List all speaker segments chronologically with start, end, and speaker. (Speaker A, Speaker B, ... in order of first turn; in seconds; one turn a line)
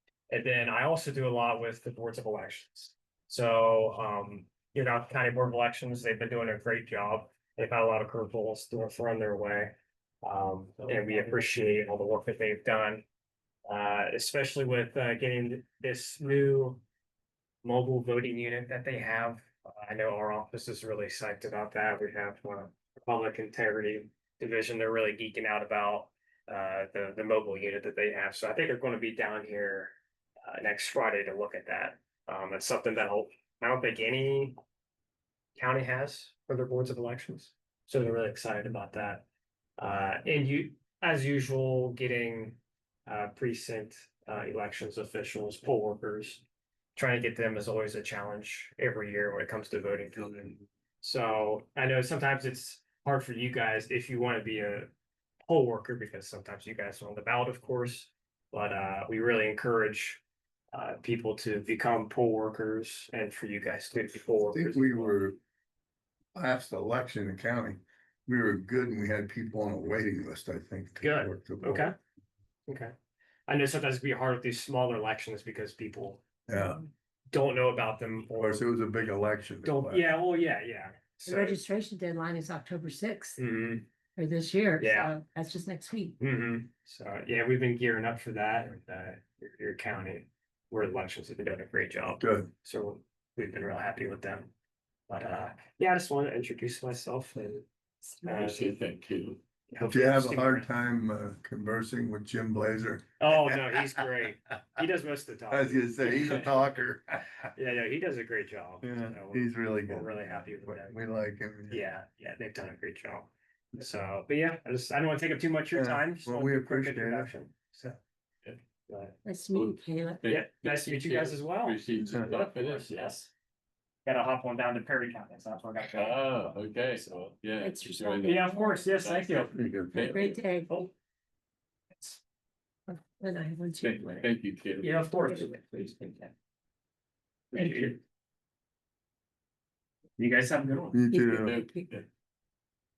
Speaker A: 0.3-13.0
Speaker A: 13.7-16.8
Speaker A: 17.6-34.6
Speaker A: 35.5-39.2
Speaker A: 39.8-46.4
Speaker A: 47.0-54.9
Speaker A: 55.5-65.1
Speaker B: 64.5-65.4
Speaker B: 66.3-71.9
Speaker A: 71.0-72.0
Speaker A: 72.7-72.9
Speaker A: 73.5-76.2
Speaker B: 76.5-76.8
Speaker A: 77.3-78.7
Speaker B: 78.3-80.0
Speaker A: 79.6-81.6
Speaker C: 81.2-83.4
Speaker A: 83.4-83.9
Speaker C: 84.2-86.2
Speaker A: 84.8-85.1
Speaker A: 86.2-94.5
Speaker B: 92.2-92.5
Speaker A: 95.1-97.6
Speaker A: 98.2-98.8
Speaker D: 98.2-99.4
Speaker A: 99.7-100.7
Speaker B: 99.8-103.0
Speaker A: 103.2-106.5
Speaker B: 105.5-107.4
Speaker A: 107.5-111.0
Speaker B: 108.8-111.8
Speaker A: 111.7-118.0
Speaker B: 115.7-117.3
Speaker A: 118.9-119.2
Speaker C: 119.2-120.2
Speaker D: 119.5-122.9
Speaker A: 120.2-123.3
Speaker A: 124.0-127.2
Speaker D: 125.9-130.4
Speaker C: 127.6-128.8
Speaker A: 128.2-129.6
Speaker C: 129.9-130.7
Speaker C: 132.9-134.3
Speaker D: 133.8-134.9
Speaker A: 134.8-136.3
Speaker C: 135.2-135.5
Speaker A: 137.5-138.0
Speaker C: 137.6-137.8
Speaker A: 140.2-141.0
Speaker B: 140.9-141.5
Speaker C: 141.1-141.9
Speaker D: 141.4-142.1